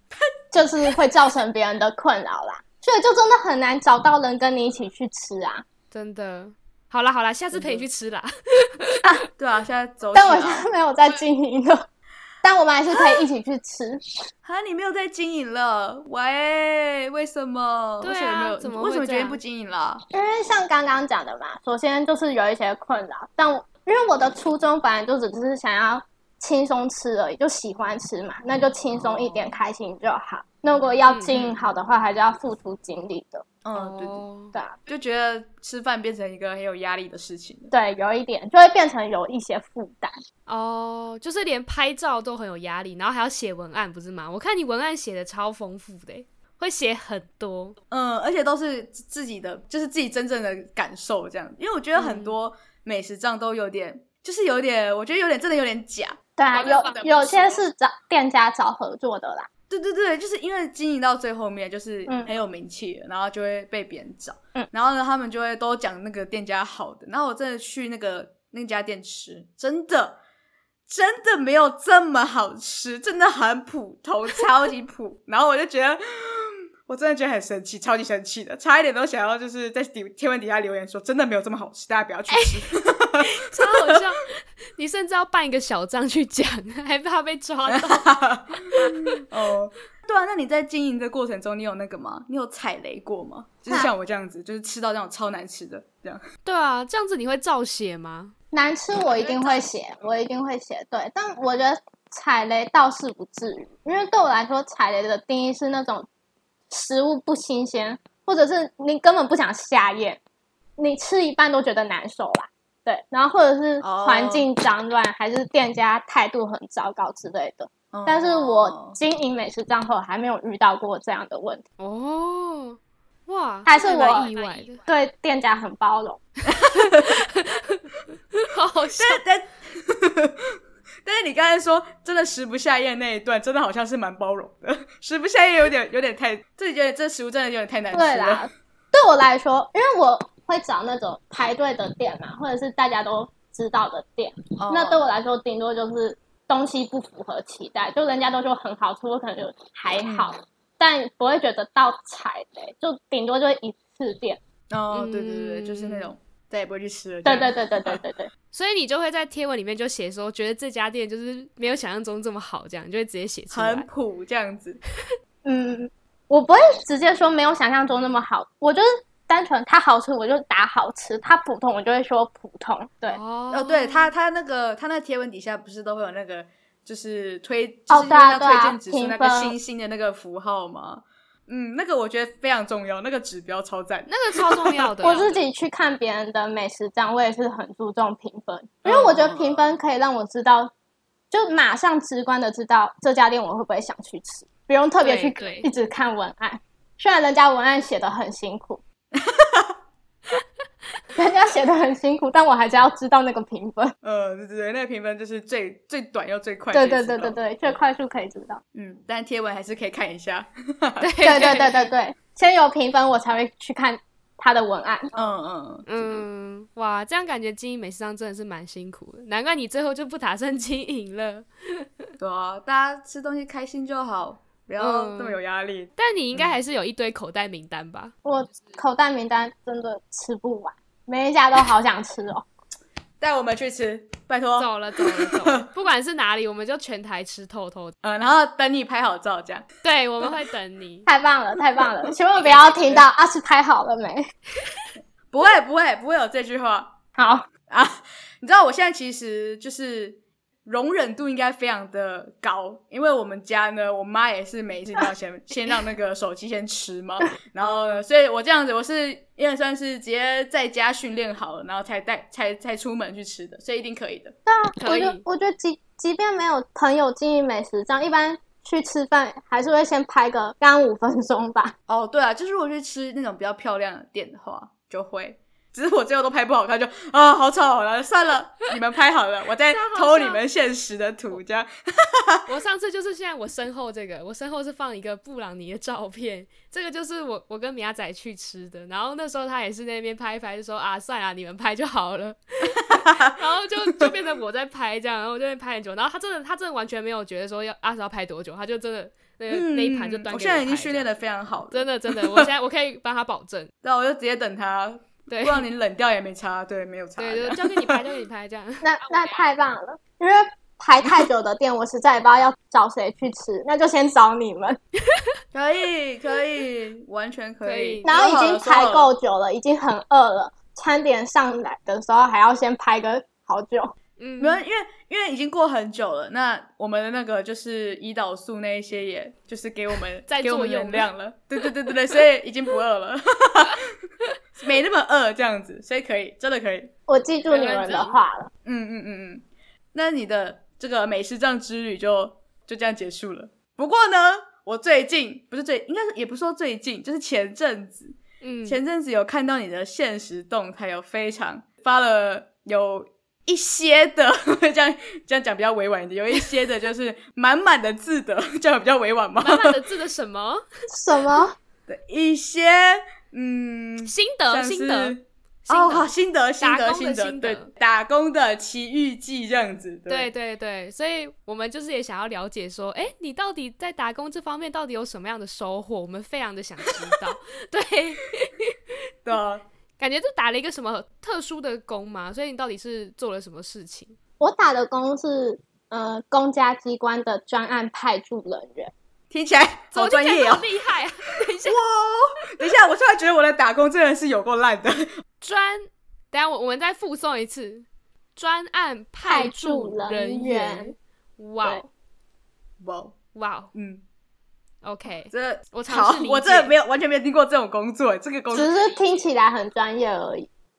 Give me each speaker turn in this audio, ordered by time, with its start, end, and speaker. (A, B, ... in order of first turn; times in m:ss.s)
0:00.5-0:05.6 A
0:05.9-0:09.0 B
0:07.5-0:07.8 C
0:09.4-0:10.7 C
0:10.1-0:11.8 A
0:12.4-0:14.0 A
0:12.9-0:13.3 C
0:14.4-0:20.0 C
0:18.0-0:19.4 B
0:20.1-0:33.4 A
0:31.1-0:31.5 B
0:33.6-0:34.2 C
0:33.7-0:34.5 B
0:34.9-0:37.7 C
0:37.7-0:40.1 A
0:40.5-0:47.8 B
0:47.9-0:57.6 C
0:51.9-0:52.4 B
0:56.4-0:59.5 A
0:59.7-1:10.2 C
1:10.9-1:24.0 C
1:22.3-1:29.2 B
1:27.7-1:36.2 C
1:36.4-1:38.3 B
1:38.5-1:46.1 A
1:46.7-1:50.2 A
1:50.8-2:01.6 A
1:53.8-1:54.4 C
1:57.9-1:59.0 C
2:01.8-2:04.8 B
2:03.6-2:06.2 A
2:06.5-2:07.2 C
2:06.7-2:07.8 B
2:08.4-2:09.2 B
2:08.9-2:18.5 C
2:17.9-2:34.4 A
2:24.6-2:25.0 C
2:30.0-2:30.3 C
2:34.7-2:38.0 C
2:34.9-2:36.1 B
2:37.2-2:38.3 A
2:38.5-2:43.9 B
2:43.5-2:44.8 C
2:45.4-2:53.2 A
2:53.1-2:54.1 B
2:53.5-3:05.2 C
2:57.9-2:59.5 A
3:04.1-3:05.4 B
3:05.0-3:10.7 A
3:08.8-3:09.7 C
3:11.3-3:18.8 A
3:15.0-3:15.7 B
3:19.1-3:19.7 C
3:21.1-3:23.9 A
3:24.0-3:27.8 C
3:26.7-3:28.6 A
3:28.7-3:31.1 C
3:31.0-3:31.9 B
3:31.2-3:35.1 A
3:35.1-3:36.2 C
3:35.9-3:42.1 B
3:42.2-3:46.6 C
3:44.8-3:45.4 B
3:46.0-3:48.1 B
3:48.2-3:52.4 A
3:53.2-3:55.7 C
3:54.6-3:57.9 B
3:58.0-3:59.6 C
3:59.8-4:01.1 B
4:01.0-4:04.3 A
4:05.3-4:06.9 C
4:07.2-4:07.5 A
4:07.7-4:24.4 C
4:17.6-4:18.0 B
4:24.5-4:31.7 A
4:24.8-4:25.2 B
4:31.9-4:42.5 C
4:39.7-4:40.4 B
4:42.5-5:01.1 B
4:52.8-4:53.4 C
4:59.5-5:02.5 C
5:01.7-5:03.7 B
5:03.8-5:08.0 C
5:05.3-5:05.6 B
5:07.2-5:08.8 B
5:08.8-5:14.8 A
5:15.5-5:19.1 C
5:17.6-5:18.1 B
5:18.0-5:23.9 A
5:24.2-5:24.6 B
5:24.4-5:33.9 C
5:30.3-5:31.1 B
5:34.6-5:36.9 C
5:37.1-5:38.5 A
5:37.5-5:38.1 B
5:38.6-5:59.8 C
5:48.4-5:48.8 B
5:59.4-6:00.6 B
6:00.9-6:01.5 A
6:01.9-6:10.3 C
6:04.0-6:07.7 B
6:10.1-6:18.8 B
6:19.2-6:19.6 C
6:20.0-6:24.2 B
6:24.4-6:28.9 A
6:29.3-6:30.7 C
6:29.9-6:31.8 B
6:31.6-6:35.1 C
6:35.4-6:41.9 B
6:39.2-6:40.9 A
6:42.8-6:43.2 C
6:43.3-6:43.7 B
6:43.7-6:44.0 C
6:44.8-6:46.7 B
6:45.3-6:48.7 C
6:48.5-6:50.5 A